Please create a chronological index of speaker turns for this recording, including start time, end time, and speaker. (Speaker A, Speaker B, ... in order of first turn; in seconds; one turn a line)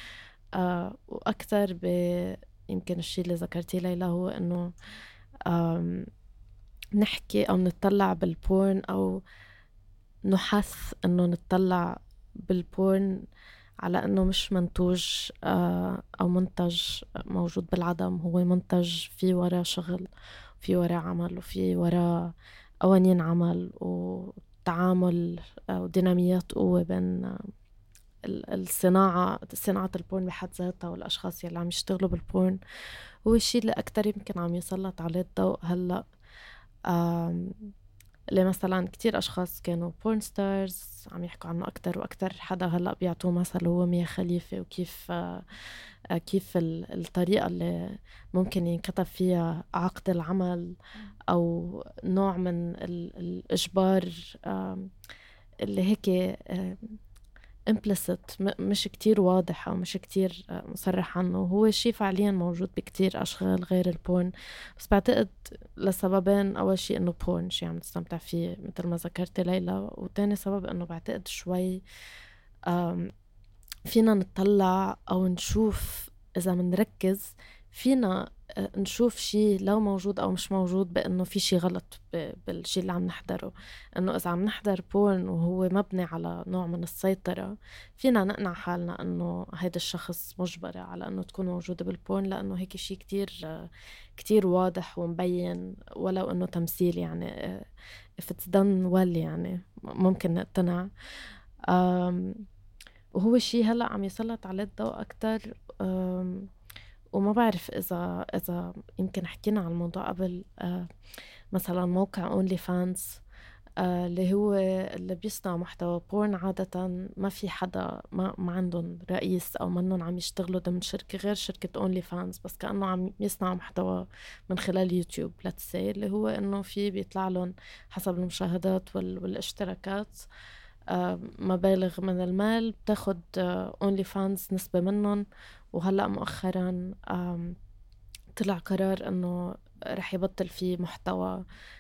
Speaker A: 0.6-4.7
Speaker A: 5.5-6.1
Speaker A: 7.0-9.2
Speaker A: 10.3-13.3
Speaker A: 13.8-20.1
Speaker A: 20.6-27.5
Speaker A: 28.3-32.6
Speaker A: 33.2-36.0
Speaker A: 36.9-37.7
Speaker A: 38.3-50.8
Speaker A: 51.3-54.9
Speaker A: 55.6-57.0
Speaker A: 57.7-71.8
Speaker A: 72.7-73.1
Speaker A: 73.9-97.7
Speaker A: 98.2-100.9
Speaker A: 101.7-102.5
Speaker A: 103.2-106.5
Speaker A: 107.1-110.9
Speaker A: 111.5-113.2
Speaker A: 113.8-130.2
Speaker A: 130.9-137.6
Speaker A: 138.4-141.4